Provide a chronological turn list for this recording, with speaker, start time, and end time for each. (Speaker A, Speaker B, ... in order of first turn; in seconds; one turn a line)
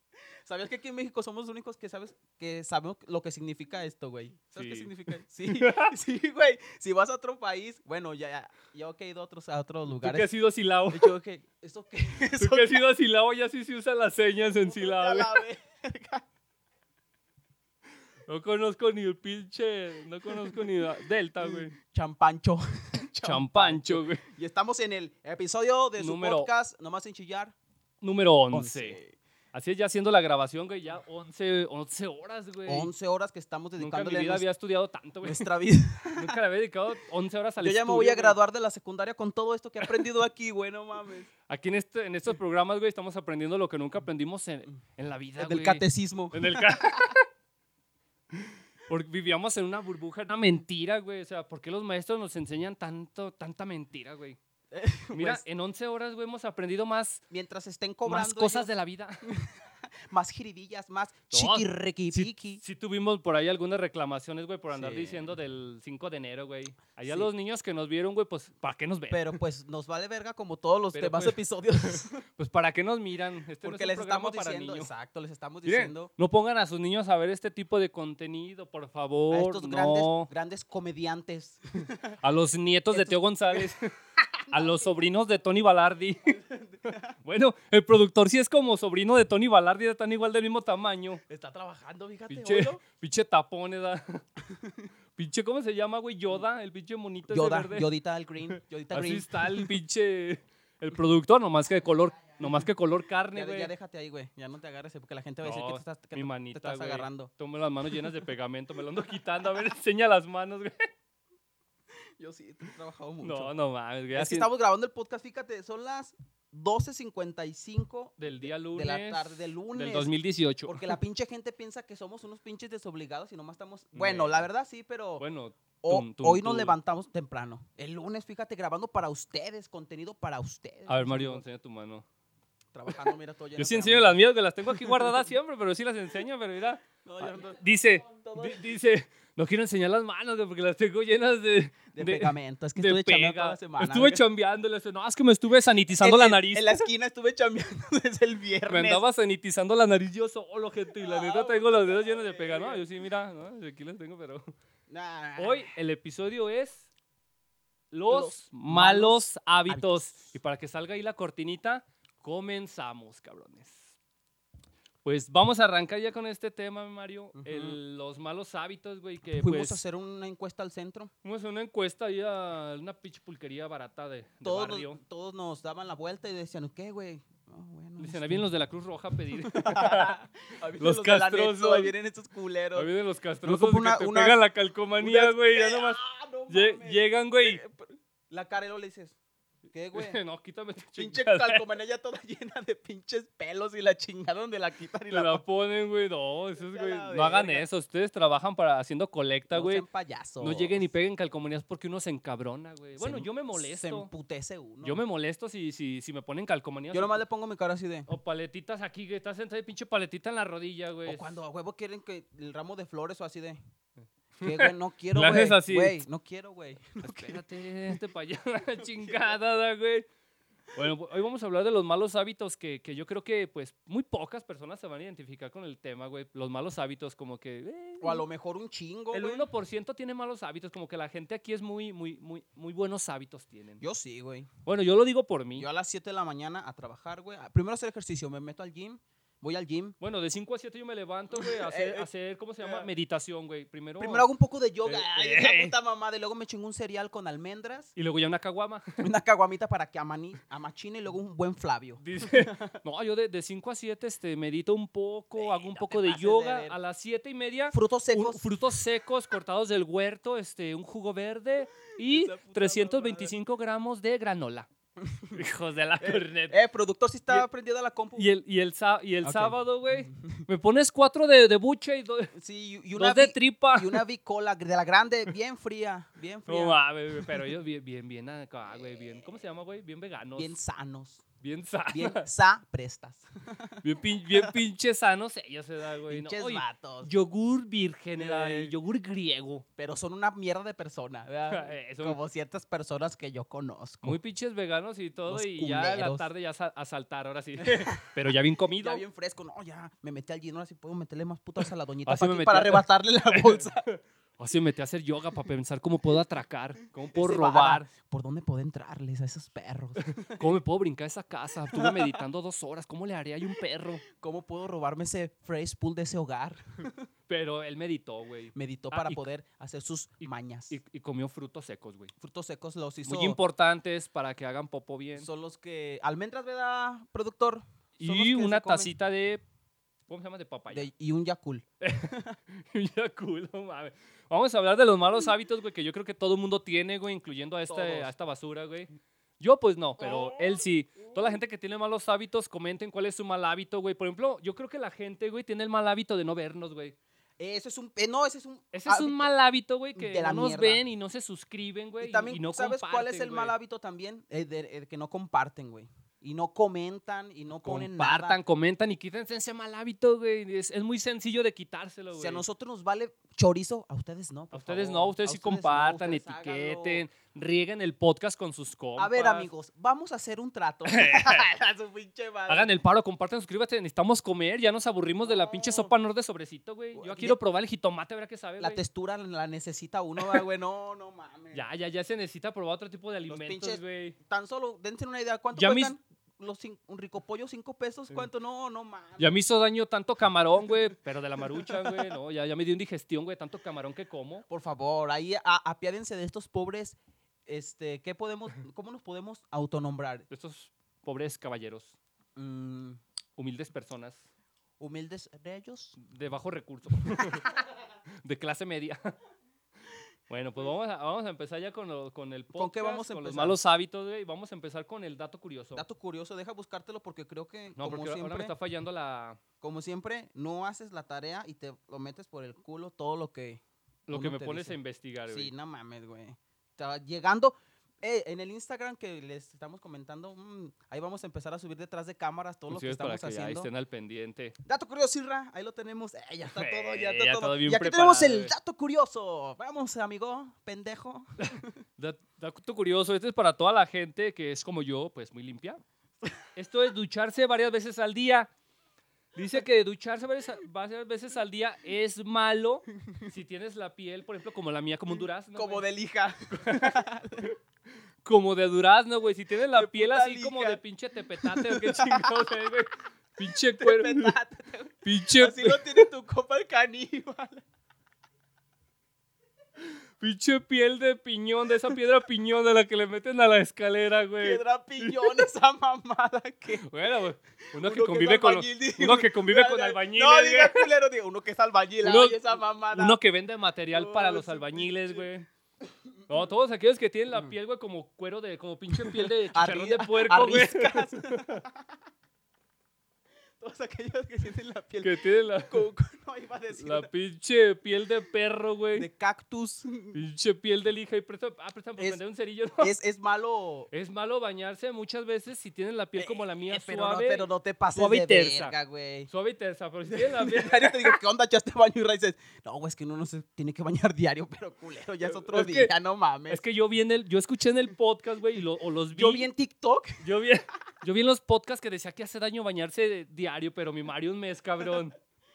Speaker A: 0.4-10.3
Speaker B: 4.5-4.9
Speaker B: 5.4-5.9
Speaker B: 9.9-11.1
Speaker A: 10.9-12.8
Speaker B: 12.3-15.4
Speaker A: 14.6-16.2
Speaker B: 18.3-21.7
Speaker A: 21.4-27.5
Speaker B: 23.2-24.2
Speaker B: 26.0-26.5
Speaker B: 28.0-29.0
Speaker A: 28.5-29.2
Speaker B: 29.5-32.9
Speaker A: 32.6-34.4
Speaker B: 33.8-35.5
Speaker A: 35.2-36.3
Speaker B: 36.1-38.4
Speaker A: 37.6-41.3
Speaker B: 41.5-47.2
Speaker A: 45.4-47.1
Speaker B: 48.3-54.4
Speaker A: 54.7-55.4
Speaker B: 55.1-57.2
Speaker A: 57.3-58.7
Speaker B: 58.0-59.3
Speaker A: 59.2-59.6
Speaker A: 60.1-62.6
Speaker B: 61.3-69.4
Speaker A: 64.7-65.3
Speaker A: 69.1-72.2
Speaker B: 70.9-74.9
Speaker A: 73.6-76.1
Speaker B: 75.7-80.3
Speaker A: 79.3-82.2
Speaker B: 82.2-83.9
Speaker A: 82.9-83.7
Speaker A: 84.2-85.0
Speaker B: 84.5-86.3
Speaker A: 86.2-87.1
Speaker B: 87.2-91.2
Speaker A: 91.3-92.8
Speaker B: 92.3-94.2
Speaker A: 94.5-94.9
Speaker B: 95.2-97.9
Speaker A: 97.3-99.7
Speaker B: 98.4-103.7
Speaker A: 103.3-107.3
Speaker B: 105.4-110.9
Speaker A: 112.2-113.5
Speaker B: 113.2-114.5
Speaker A: 114.1-120.1
Speaker B: 118.2-121.0
Speaker A: 120.7-125.2
Speaker B: 123.9-124.5
Speaker B: 125.2-126.8
Speaker A: 125.8-131.4
Speaker B: 130.9-132.0
Speaker A: 132.7-135.2
Speaker B: 133.6-146.8
Speaker A: 137.0-137.6
Speaker A: 138.2-138.6
Speaker A: 141.9-144.2
Speaker A: 146.0-149.0
Speaker B: 148.7-154.5
Speaker A: 150.9-152.8
Speaker A: 154.9-155.7
Speaker B: 155.4-156.9
Speaker B: 157.9-163.9
Speaker A: 158.1-160.3
Speaker B: 165.0-169.8
Speaker A: 167.3-167.8
Speaker A: 169.4-171.1
Speaker B: 171.2-175.0
Speaker A: 174.4-178.4
Speaker B: 178.0-180.2
Speaker A: 179.3-182.9
Speaker B: 180.8-181.9
Speaker B: 182.8-187.6
Speaker A: 183.4-184.4
Speaker A: 185.0-189.2
Speaker A: 189.7-190.2
Speaker B: 189.9-191.6
Speaker A: 190.9-195.4
Speaker B: 195.1-199.8
Speaker A: 196.6-197.7
Speaker A: 199.5-200.8
Speaker B: 200.4-204.1
Speaker A: 203.0-205.0
Speaker B: 204.8-207.2
Speaker A: 206.9-208.1
Speaker B: 208.1-211.4
Speaker A: 211.1-213.6
Speaker B: 214.4-216.0
Speaker A: 214.4-217.4
Speaker B: 217.0-220.1
Speaker A: 218.8-219.3
Speaker B: 220.7-228.2
Speaker A: 228.0-229.5
Speaker B: 229.1-233.8
Speaker A: 233.8-234.5
Speaker B: 234.7-235.7
Speaker A: 235.6-239.9
Speaker B: 240.0-244.3
Speaker A: 241.3-242.1
Speaker A: 242.6-242.9
Speaker A: 244.0-247.9
Speaker B: 244.8-245.7
Speaker B: 247.9-249.0
Speaker A: 249.0-252.8
Speaker B: 252.0-264.7
Speaker A: 255.4-256.7
Speaker A: 257.7-258.4
Speaker A: 262.0-263.3
Speaker A: 265.0-265.4
Speaker B: 265.3-266.6
Speaker A: 266.0-268.3
Speaker B: 268.2-272.3
Speaker A: 269.2-270.4
Speaker A: 272.3-277.4
Speaker B: 272.9-274.0
Speaker B: 276.5-280.5
Speaker A: 278.8-279.1
Speaker A: 280.4-281.2
Speaker B: 281.4-282.3
Speaker A: 281.9-284.5
Speaker B: 283.8-289.6
Speaker A: 286.1-287.1
Speaker A: 288.1-288.7
Speaker A: 289.8-294.2
Speaker B: 291.5-292.2
Speaker B: 294.0-299.0
Speaker A: 295.3-296.3
Speaker A: 297.6-298.1
Speaker A: 298.8-303.8
Speaker B: 302.1-307.9
Speaker A: 307.1-310.4
Speaker B: 310.2-314.0
Speaker A: 311.7-312.2
Speaker A: 314.1-317.1
Speaker B: 317.3-319.2
Speaker A: 318.5-320.8
Speaker B: 320.2-322.1
Speaker A: 322.2-323.4
Speaker B: 323.1-325.3
Speaker A: 325.2-328.9
Speaker B: 328.0-329.4
Speaker B: 330.1-330.9
Speaker A: 330.7-332.4
Speaker B: 331.8-346.9
Speaker A: 337.7-338.1
Speaker A: 340.0-340.6
Speaker A: 347.4-349.3
Speaker B: 348.7-353.5
Speaker A: 349.9-350.8
Speaker A: 352.0-358.4
Speaker B: 357.5-362.4
Speaker A: 362.1-367.0
Speaker B: 364.5-369.5
Speaker A: 369.0-372.7
Speaker B: 370.9-371.5
Speaker B: 372.5-378.8
Speaker A: 375.2-375.9
Speaker A: 376.9-377.4
Speaker A: 378.6-381.6
Speaker B: 381.5-384.1
Speaker A: 383.3-389.3
Speaker B: 385.5-385.9
Speaker B: 389.2-394.4
Speaker A: 391.6-392.1
Speaker A: 394.5-400.2
Speaker B: 400.3-401.9
Speaker A: 402.4-403.0
Speaker B: 403.4-404.2
Speaker A: 404.8-405.9
Speaker B: 406.0-407.5
Speaker A: 407.0-407.6
Speaker B: 408.2-409.1
Speaker B: 410.3-415.8
Speaker A: 412.5-413.6
Speaker A: 415.7-418.5
Speaker B: 417.8-419.4
Speaker A: 419.6-433.7
Speaker B: 424.1-425.5
Speaker B: 432.7-434.5
Speaker A: 434.6-441.8
Speaker B: 436.4-438.5
Speaker B: 441.5-445.8
Speaker B: 446.5-448.5
Speaker B: 449.3-455.8
Speaker A: 455.5-457.5
Speaker B: 456.6-457.0
Speaker B: 458.2-464.3
Speaker A: 459.7-460.8
Speaker A: 461.4-462.4
Speaker A: 463.8-467.6
Speaker B: 465.0-466.0
Speaker B: 469.8-475.4
Speaker A: 474.4-476.9
Speaker B: 476.8-480.9
Speaker A: 477.7-483.2
Speaker B: 482.0-485.5
Speaker A: 483.9-485.2
Speaker B: 486.3-491.6
Speaker A: 489.0-491.9
Speaker A: 493.6-497.1
Speaker B: 495.0-495.8
Speaker B: 496.7-499.1
Speaker A: 498.9-500.2
Speaker B: 500.1-502.9
Speaker A: 502.8-503.9
Speaker B: 503.9-508.7
Speaker A: 506.1-509.3
Speaker B: 509.3-511.1
Speaker A: 510.1-516.6
Speaker B: 515.2-515.9
Speaker B: 516.5-519.5
Speaker A: 519.1-520.2
Speaker B: 520.2-525.1